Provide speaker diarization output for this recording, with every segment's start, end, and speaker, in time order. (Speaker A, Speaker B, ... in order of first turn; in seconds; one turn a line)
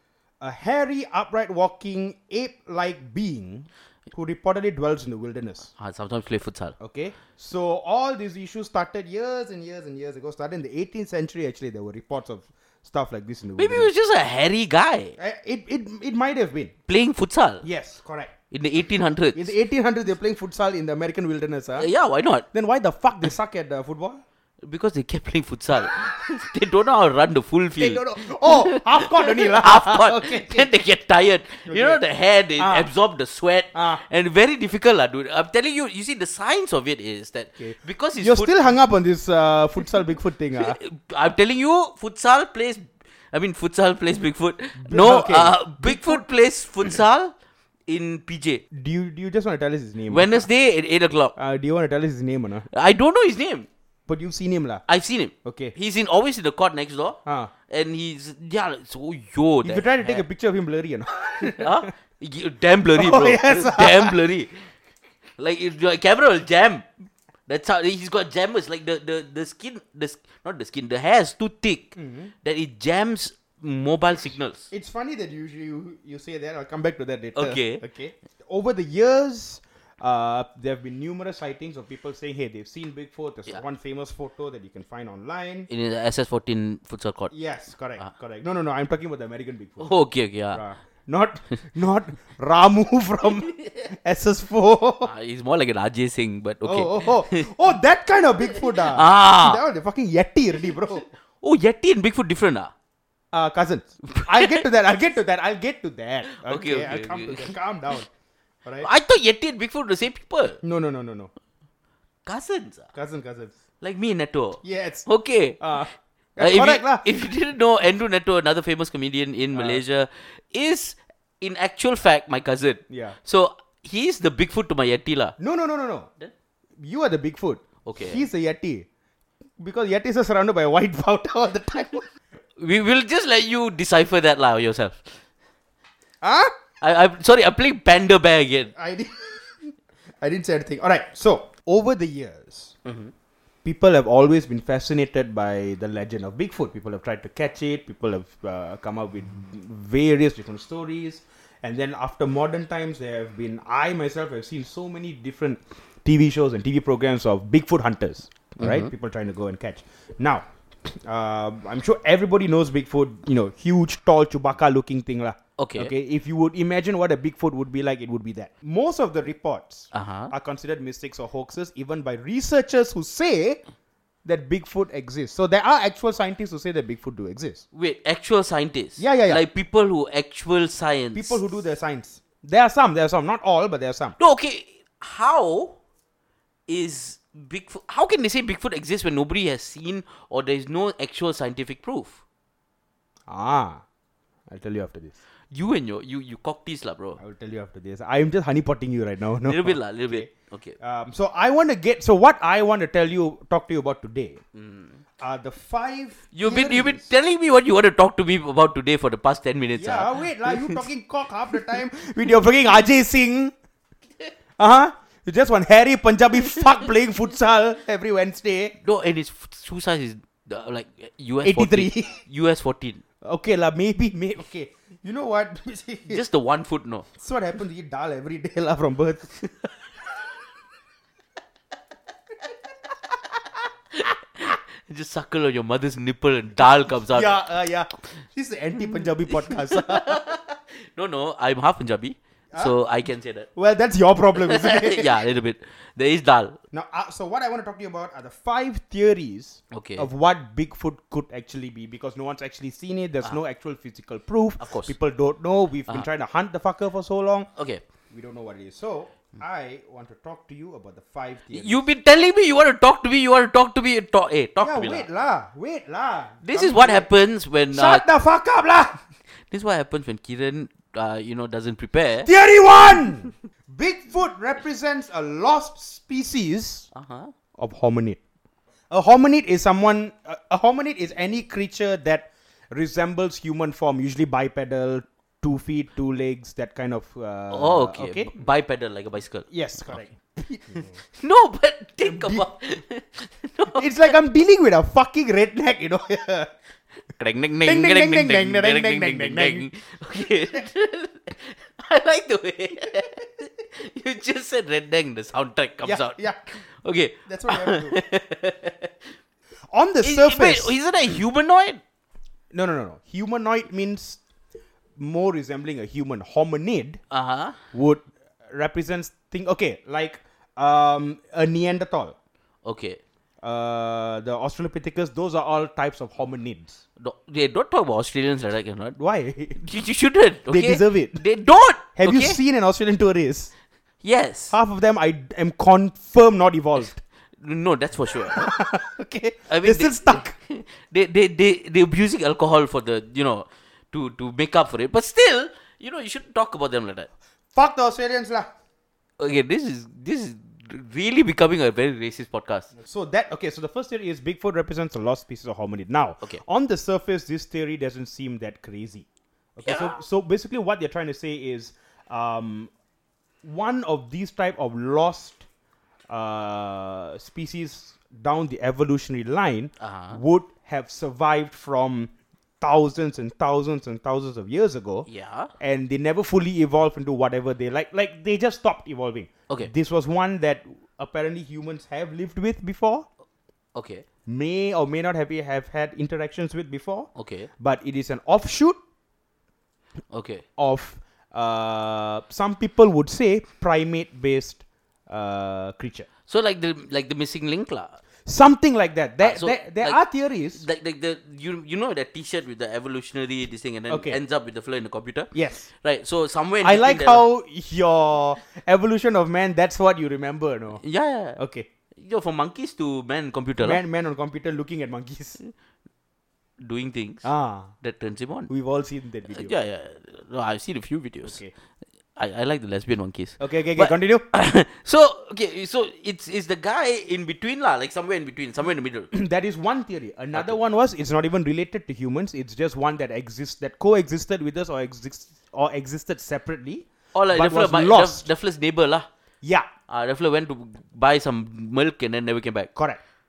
Speaker A: 0.4-5.7
Speaker B: 5.8-6.8
Speaker A: 6.8-13.9
Speaker B: 13.6-15.2
Speaker A: 15.2-16.7
Speaker B: 16.9-17.6
Speaker A: 17.6-18.3
Speaker B: 18.5-19.5
Speaker A: 19.4-21.9
Speaker B: 21.8-22.4
Speaker A: 22.5-24.2
Speaker B: 24.6-38.5
Speaker A: 27.8-30.7
Speaker A: 31.7-32.0
Speaker A: 32.6-32.9
Speaker A: 33.7-34.0
Speaker A: 37.6-40.8
Speaker B: 40.5-47.3
Speaker A: 44.8-46.2
Speaker B: 47.9-48.6
Speaker A: 48.7-50.5
Speaker B: 50.1-51.4
Speaker A: 51.4-52.7
Speaker B: 52.7-53.7
Speaker A: 54.1-54.8
Speaker B: 54.9-60.2
Speaker A: 55.4-55.8
Speaker A: 57.3-57.5
Speaker A: 59.6-61.9
Speaker B: 61.4-64.7
Speaker A: 63.0-64.2
Speaker B: 65.4-66.9
Speaker B: 67.5-74.7
Speaker A: 72.0-72.3
Speaker A: 74.7-85.7
Speaker B: 77.3-77.8
Speaker B: 85.7-87.3
Speaker A: 87.3-90.0
Speaker B: 89.8-90.6
Speaker A: 90.5-95.1
Speaker B: 95.0-97.5
Speaker A: 96.6-101.1
Speaker B: 98.9-99.6
Speaker B: 101.4-102.7
Speaker A: 103.3-108.1
Speaker B: 104.1-104.6
Speaker B: 106.3-107.5
Speaker B: 108.8-110.6
Speaker A: 110.6-111.3
Speaker B: 112.3-112.9
Speaker A: 112.9-113.5
Speaker B: 113.8-115.6
Speaker A: 114.6-115.1
Speaker A: 115.6-117.1
Speaker B: 116.4-125.4
Speaker A: 119.5-119.8
Speaker A: 122.9-123.2
Speaker A: 125.4-126.1
Speaker A: 126.8-128.9
Speaker B: 127.8-128.2
Speaker A: 129.6-132.1
Speaker B: 132.6-135.1
Speaker A: 136.2-136.5
Speaker B: 136.8-138.7
Speaker A: 138.7-142.8
Speaker B: 142.8-143.1
Speaker A: 143.6-173.6
Speaker B: 158.6-158.9
Speaker B: 165.6-165.9
Speaker B: 169.9-170.3
Speaker A: 174.2-177.6
Speaker B: 177.7-181.4
Speaker A: 179.0-179.4
Speaker A: 181.1-184.2
Speaker B: 184.2-185.8
Speaker B: 186.7-192.2
Speaker A: 193.3-193.8
Speaker A: 194.5-195.1
Speaker B: 195.5-197.2
Speaker A: 197.2-200.3
Speaker B: 199.4-200.8
Speaker A: 200.8-204.4
Speaker B: 204.6-205.0
Speaker A: 205.2-207.1
Speaker B: 206.3-210.8
Speaker A: 209.8-213.5
Speaker A: 214.6-218.8
Speaker B: 218.8-223.0
Speaker A: 221.4-222.2
Speaker A: 223.2-226.2
Speaker B: 226.1-227.1
Speaker A: 227.2-229.3
Speaker B: 233.9-237.4
Speaker A: 237.1-240.2
Speaker B: 239.4-243.5
Speaker A: 243.6-245.2
Speaker B: 244.4-246.6
Speaker A: 246.7-257.5
Speaker B: 249.7-250.1
Speaker B: 254.6-254.9
Speaker B: 257.6-257.8
Speaker A: 258.1-261.8
Speaker B: 261.5-265.1
Speaker A: 264.6-267.1
Speaker B: 266.4-268.1
Speaker A: 267.7-269.0
Speaker B: 269.5-272.3
Speaker A: 272.2-276.9
Speaker B: 276.9-277.3
Speaker A: 277.6-278.2
Speaker A: 278.9-288.4
Speaker B: 287.5-289.5
Speaker A: 289.5-291.0
Speaker B: 291.1-293.9
Speaker A: 292.0-292.4
Speaker A: 293.8-296.5
Speaker B: 297.2-308.9
Speaker A: 297.6-299.7
Speaker A: 305.8-306.4
Speaker A: 307.3-308.0
Speaker A: 309.7-310.8
Speaker B: 310.0-311.8
Speaker A: 312.5-314.2
Speaker A: 315.0-317.0
Speaker B: 317.1-317.6
Speaker A: 317.7-322.1
Speaker B: 322.6-323.0
Speaker A: 323.4-326.8
Speaker B: 327.0-328.9
Speaker A: 329.0-329.6
Speaker B: 329.6-332.4
Speaker A: 330.5-331.2
Speaker A: 331.9-333.5
Speaker B: 334.0-334.5
Speaker A: 334.5-337.0
Speaker B: 337.4-338.5
Speaker A: 338.2-340.4
Speaker B: 339.5-347.1
Speaker A: 347.5-348.5
Speaker B: 349.2-352.7
Speaker A: 352.8-362.7
Speaker B: 359.6-360.0
Speaker A: 363.4-365.4
Speaker A: 366.1-375.1
Speaker B: 369.8-370.2
Speaker B: 375.1-375.5
Speaker A: 375.6-383.1
Speaker B: 383.8-384.1
Speaker A: 384.3-388.8
Speaker B: 387.1-387.5
Speaker B: 390.1-390.4
Speaker A: 390.6-396.1
Speaker B: 396.3-398.0
Speaker A: 398.3-400.6
Speaker B: 399.2-400.0
Speaker B: 400.5-407.2
Speaker A: 403.9-404.2
Speaker A: 405.3-405.7
Speaker A: 406.6-410.8
Speaker B: 410.8-411.4
Speaker A: 411.4-411.7
Speaker B: 412.0-413.8
Speaker A: 413.6-415.4
Speaker B: 416.6-417.3
Speaker A: 417.2-417.7
Speaker B: 417.8-418.5
Speaker A: 418.5-419.5
Speaker B: 419.3-421.4
Speaker A: 421.2-421.5
Speaker B: 422.2-429.1
Speaker A: 423.4-424.2
Speaker A: 429.1-438.3
Speaker B: 437.1-439.1
Speaker A: 439.4-439.7
Speaker B: 439.9-442.7